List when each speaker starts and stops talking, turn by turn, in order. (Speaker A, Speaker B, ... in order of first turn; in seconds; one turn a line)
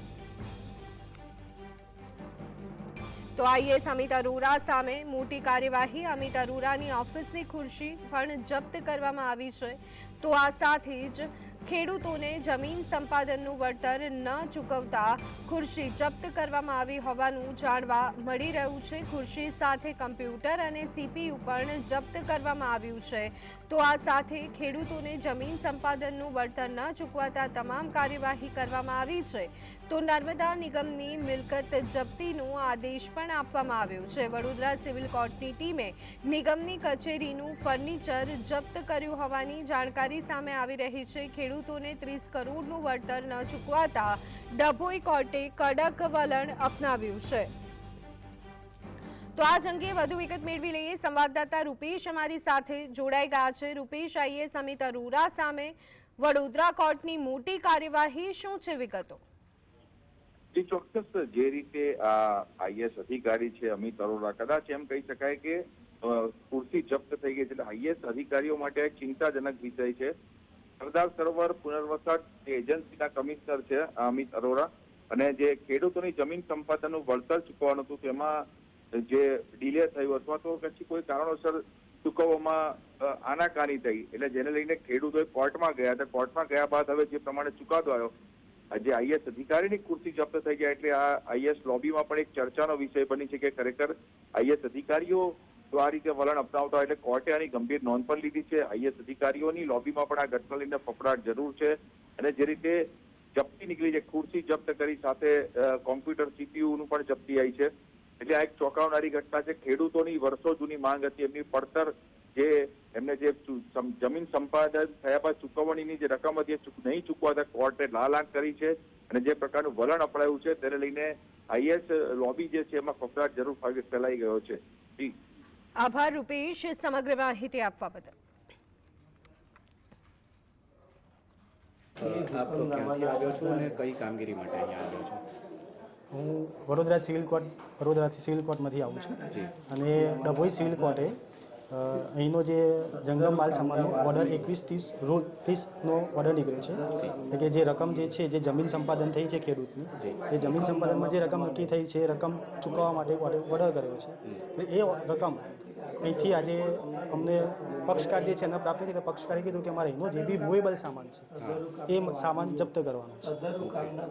Speaker A: 3.4-47.5
Speaker A: 49.4-59.2
Speaker B: 60.5-70.1
Speaker B: 70.8-78.4
Speaker B: 78.9-88.1
Speaker B: 88.7-102.8
Speaker B: 103.3-125.1
Speaker A: 125.8-128.1
Speaker C: 132.0-135.2
Speaker D: 136.1-141.2
Speaker D: 141.7-155.5
Speaker C: 146.9-147.2
Speaker D: 156.0-163.5
Speaker C: 161.4-161.7
Speaker C: 163.6-164.0